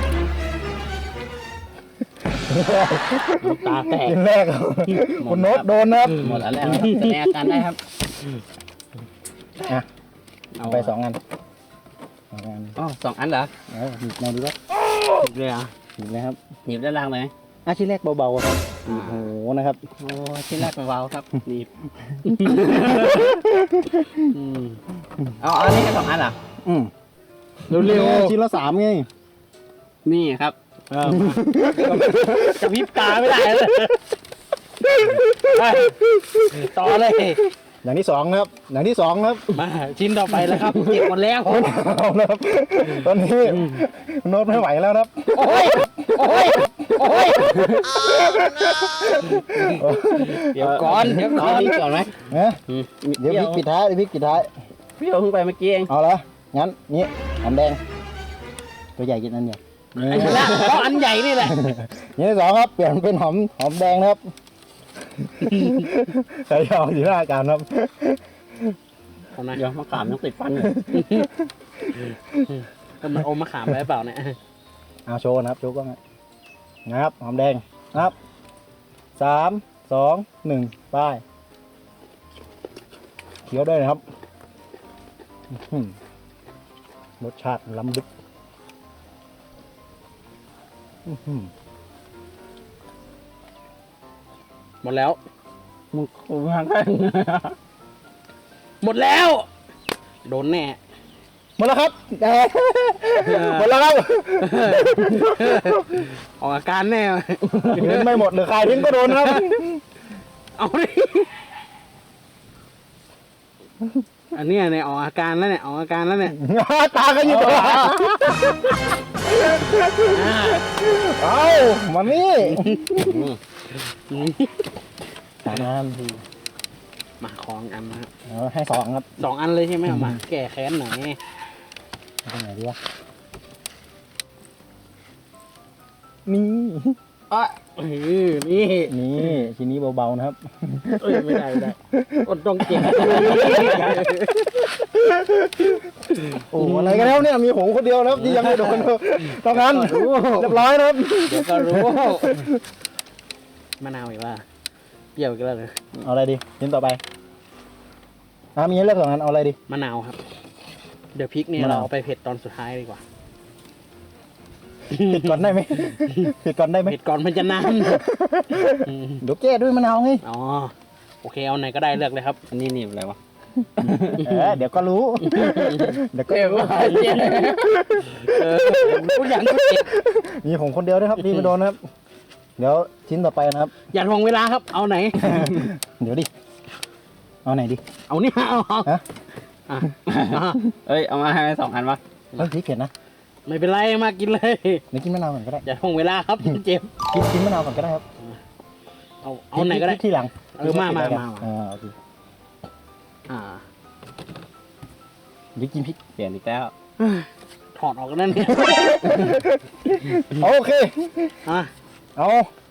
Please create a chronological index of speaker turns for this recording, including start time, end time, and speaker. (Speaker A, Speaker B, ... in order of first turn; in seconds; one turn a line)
Speaker A: 2.2-7.2
Speaker B: 3.4-4.2
Speaker C: 5.2-7.8
Speaker B: 6.7-7.1
Speaker A: 9.6-9.9
Speaker C: 10.6-10.9
Speaker A: 10.6-11.2
Speaker A: 12.3-12.8
Speaker C: 12.8-13.5
Speaker A: 13.7-14.6
Speaker B: 15.2-15.7
Speaker A: 16.0-16.4
Speaker C: 16.7-17.3
Speaker A: 17.6-19.8
Speaker C: 18.9-19.3
Speaker C: 20.0-21.7
Speaker B: 22.3-23.3
Speaker C: 22.4-23.2
Speaker A: 23.5-24.3
Speaker B: 24.3-24.8
Speaker C: 25.4-26.4
Speaker A: 26.6-26.9
Speaker B: 27.7-28.4
Speaker A: 27.7-29.1
Speaker C: 30.1-30.6
Speaker B: 30.9-34.1
Speaker A: 31.0-33.5
Speaker A: 34.8-36.7
Speaker B: 35.0-37.5
Speaker A: 37.8-39.5
Speaker B: 39.5-41.8
Speaker C: 40.4-41.1
Speaker A: 41.5-52.6
Speaker B: 42.9-43.7
Speaker B: 45.3-47.9
Speaker B: 49.3-49.8
Speaker B: 50.3-51.7
Speaker C: 50.5-52.1
Speaker C: 52.7-53.6
Speaker A: 53.2-54.5
Speaker C: 55.0-55.9
Speaker A: 55.9-57.8
Speaker A: 59.0-60.6
Speaker B: 60.0-61.6
Speaker C: 60.2-60.8
Speaker A: 61.4-64.2
Speaker A: 65.1-68.8
Speaker B: 69.3-69.6
Speaker C: 69.5-70.8
Speaker A: 70.6-72.4
Speaker B: 70.9-71.3
Speaker B: 71.9-74.4
Speaker A: 75.1-76.0
Speaker A: 76.9-78.2
Speaker A: 79.2-81.2
Speaker A: 83.5-84.0
Speaker A: 85.5-86.0
Speaker A: 87.2-88.1
Speaker A: 91.1-91.5
Speaker B: 94.8-95.2
Speaker C: 95.9-97.5
Speaker B: 98.8-99.5
Speaker B: 100.2-100.8
Speaker A: 101.6-106.0
Speaker B: 103.2-103.7
Speaker B: 104.4-109.6
Speaker A: 107.8-109.8
Speaker B: 110.6-111.3
Speaker B: 114.3-116.4
Speaker A: 116.2-123.1
Speaker C: 117.2-118.1
Speaker B: 119.7-120.7
Speaker B: 122.4-123.1
Speaker C: 122.9-123.4
Speaker B: 123.7-124.7
Speaker A: 125.4-126.0
Speaker B: 125.5-126.2
Speaker B: 127.2-128.1
Speaker A: 128.3-129.2
Speaker B: 129.2-131.2
Speaker A: 129.9-130.2
Speaker A: 132.3-132.8
Speaker A: 136.3-137.0
Speaker C: 137.3-137.6
Speaker B: 137.8-139.4
Speaker A: 138.9-145.9
Speaker B: 141.0-144.7
Speaker C: 143.3-143.8
Speaker B: 146.1-147.2
Speaker A: 146.5-152.6
Speaker B: 148.2-150.3
Speaker C: 149.6-150.6
Speaker B: 151.3-152.5
Speaker B: 153.8-154.4
Speaker B: 155.2-155.8
Speaker A: 156.0-157.0
Speaker A: 158.6-159.6
Speaker B: 159.7-160.2
Speaker B: 161.1-163.0
Speaker A: 161.6-161.9
Speaker B: 164.9-166.3
Speaker A: 165.0-167.0
Speaker B: 166.9-168.1
Speaker A: 167.6-170.2
Speaker B: 168.6-169.2
Speaker B: 170.2-172.4
Speaker C: 172.5-173.2
Speaker C: 173.8-174.2
Speaker A: 174.2-181.8
Speaker B: 174.3-174.6
Speaker B: 175.3-175.6
Speaker C: 175.4-177.9
Speaker B: 178.1-179.9
Speaker B: 181.2-181.5
Speaker A: 182.6-183.7
Speaker B: 183.9-185.6
Speaker A: 185.2-186.3
Speaker A: 187.4-187.8
Speaker B: 188.1-189.0
Speaker B: 189.7-190.7
Speaker C: 190.1-192.0
Speaker A: 192.4-192.9
Speaker B: 193.5-194.8
Speaker A: 194.9-195.7
Speaker B: 195.7-197.0
Speaker A: 197.1-198.0
Speaker B: 199.2-200.0
Speaker A: 199.6-201.9
Speaker B: 200.5-201.5
Speaker B: 203.3-203.6
Speaker A: 205.6-206.0
Speaker C: 206.2-206.7
Speaker B: 207.0-209.2
Speaker A: 208.4-211.4
Speaker B: 210.0-210.5
Speaker B: 211.4-211.7
Speaker A: 212.2-212.5